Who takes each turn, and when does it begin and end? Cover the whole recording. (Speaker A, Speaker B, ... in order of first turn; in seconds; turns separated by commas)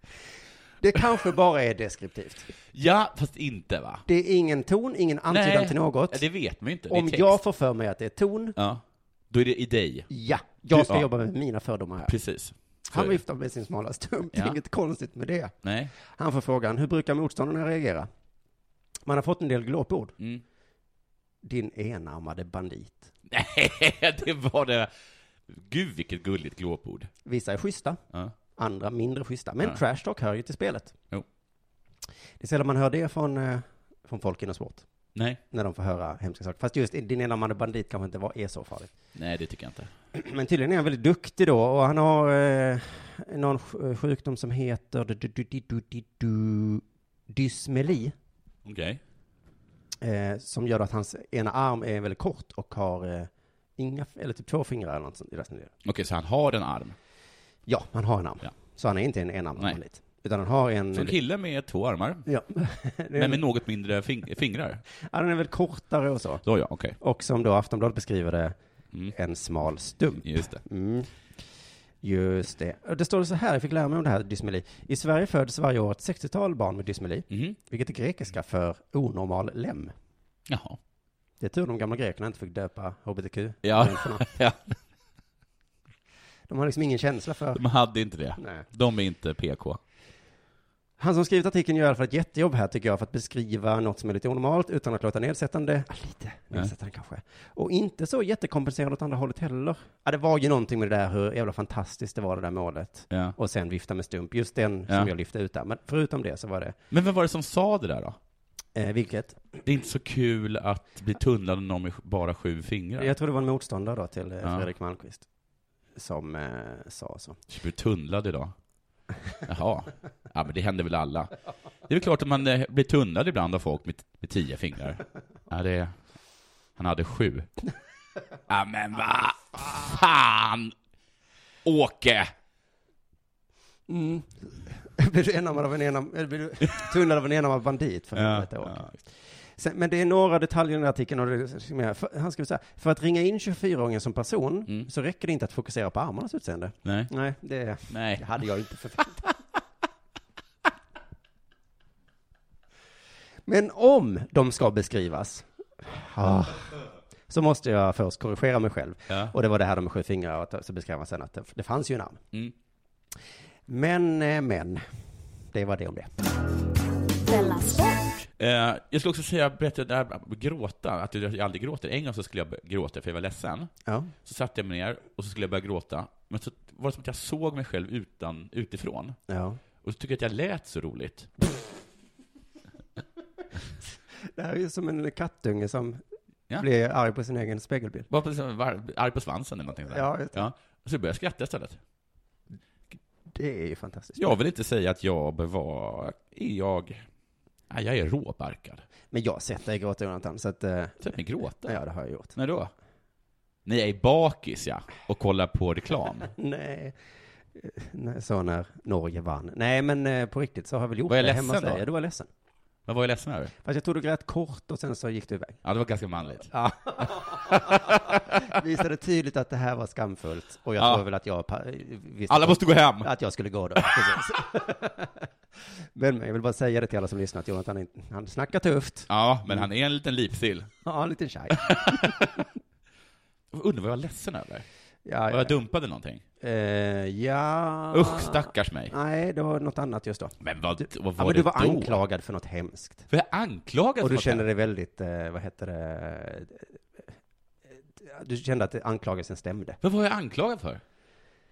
Speaker A: 0.8-2.5, Speaker B: 2.7-4.0, Speaker A: 4.1-6.2, Speaker B: 5.3-7.4, Speaker A: 6.9-8.6, Speaker B: 8.6-10.1, Speaker A: 10.1-12.1, Speaker B: 10.7-11.1, Speaker B: 12.1-13.2, Speaker A: 12.9-18.1, Speaker B: 14.3-14.6, Speaker B: 15.6-15.9, Speaker A: 19.1-20.1, Speaker A: 21.4-23.1, Speaker B: 23.3-24.9, Speaker B: 25.5-27.1, Speaker A: 27.2-28.0, Speaker A: 28.6-30.9, Speaker A: 32.4-34.9, Speaker B: 35.1-35.4, Speaker A: 35.5-38.9, Speaker B: 39.1-39.9, Speaker A: 40.1-48.1, Speaker B: 48.6-49.0, Speaker A: 50.0-55.7, Speaker B: 55.8-57.0, Speaker A: 57.7-61.2, Speaker B: 60.9-62.3, Speaker A: 62.3-63.4, Speaker B: 63.1-64.8, Speaker A: 65.1-66.4, Speaker B: 66.4-67.0, Speaker A: 67.0-68.5, Speaker A: 69.1-71.1, Speaker B: 70.2-70.6, Speaker A: 72.0-79.9, Speaker B: 77.3-77.6, Speaker B: 80.5-80.8, Speaker A: 81.4-84.3, Speaker B: 83.6-84.8, Speaker A: 86.5-87.6, Speaker B: 87.5-89.8, Speaker A: 88.4-88.7, Speaker A: 91.0-106.8, Speaker B: 103.1-103.4, Speaker B: 106.9-108.2, Speaker A: 108.8-109.4, Speaker B: 109.7-113.1, Speaker A: 113.0-115.3, Speaker A: 116.0-117.4, Speaker B: 117.5-118.5, Speaker B: 119.5-121.3, Speaker B: 121.9-126.0, Speaker B: 126.8-127.5, Speaker B: 128.5-130.7, Speaker B: 131.7-132.3, Speaker A: 133.9-139.0, Speaker B: 138.2-139.0, Speaker A: 139.6-149.2, Speaker B: 146.8-147.1, Speaker B: 147.9-148.4, Speaker A: 153.5-162.2, Speaker B: 159.1-159.3, Speaker A: 163.7-164.8, Speaker A: 165.5-166.3, Speaker B: 168.4-173.7, Speaker A: 173.9-174.1, Speaker B: 174.2-179.2, Speaker A: 179.3-179.6, Speaker B: 179.8-181.3, Speaker A: 184.3-186.0, Speaker A: 186.6-188.1, Speaker B: 188.1-191.8, Speaker A: 189.9-190.5, Speaker A: 193.3-194.2, Speaker B: 194.2-197.1, Speaker B: 197.7-198.9, Speaker A: 199.1-202.3, Speaker B: 201.0-201.8, Speaker B: 202.3-202.7, Speaker B: 203.7-206.3, Speaker A: 206.3-207.0, Speaker A: 207.6-212.3, Speaker B: 211.1-211.9, Speaker B: 212.9-213.5, Speaker A: 213.6-215.6, Speaker B: 215.6-218.4, Speaker A: 216.5-225.3, Speaker B: 220.8-221.0, Speaker B: 222.3-223.1, Speaker B: 223.8-224.2, Speaker A: 226.0-229.7, Speaker B: 229.1-230.7, Speaker A: 230.8-232.5, Speaker B: 231.6-232.3, Speaker B: 233.5-234.7, Speaker A: 235.1-235.6, Speaker B: 235.3-236.2, Speaker A: 236.4-243.1, Speaker B: 237.9-238.9, Speaker B: 240.4-242.0, Speaker B: 243.1-244.5, Speaker A: 244.0-247.0, Speaker A: 247.9-249.8, Speaker B: 249.8-250.8